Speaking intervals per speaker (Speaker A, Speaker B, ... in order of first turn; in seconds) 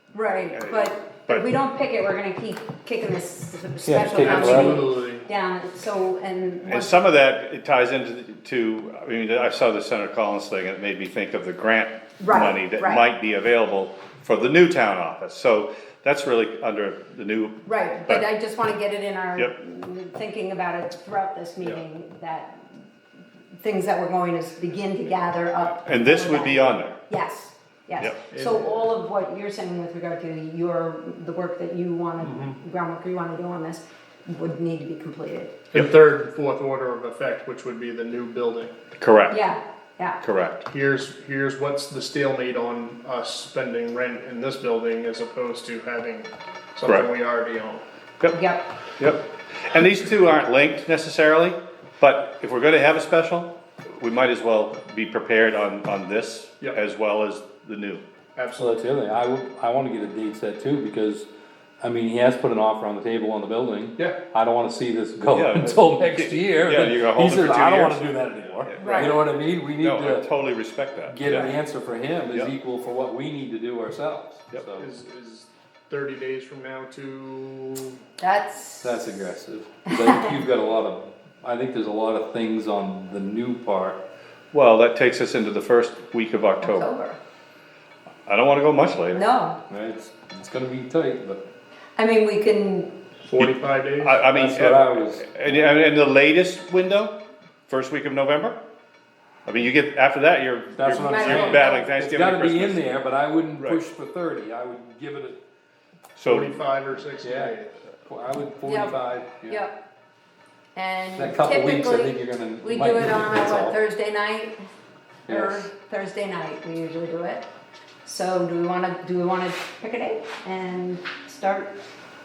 Speaker A: 0.1-7.1, 12.2-13.0, 17.7-22.6, 23.6-35.6, 39.3-40.2, 48.3-48.7, 68.8-69.2, 78.2-79.1, 80.0-80.4, 86.6-87.2, 89.1-89.6, 92.0-92.9, 101.0-101.9, 108.6-109.8, 110.8-114.6, 115.3-117.5, 118.0-121.8
Speaker B: 0.5-1.5, 6.7-18.3, 25.8-27.0, 39.0-39.4, 40.2-40.6, 49.0-58.0, 65.3-68.0, 68.7-69.2, 69.8-71.5, 84.5-86.9, 88.3-89.2, 93.4-97.1, 97.7-98.6, 99.5-102.9, 106.2-106.6
Speaker C: 3.9-4.8, 58.6-61.3, 61.8-70.2, 71.1-74.8, 78.8-84.0, 89.7-91.4, 94.3-95.3, 100.8-105.4, 107.2-107.5, 108.1-109.6, 111.2-113.8
Speaker D: 4.2-5.3, 28.3-28.9, 32.2-32.6, 35.7-38.8, 40.7-47.8, 58.4-58.8, 74.7-78.0, 93.2-94.2, 106.2-107.8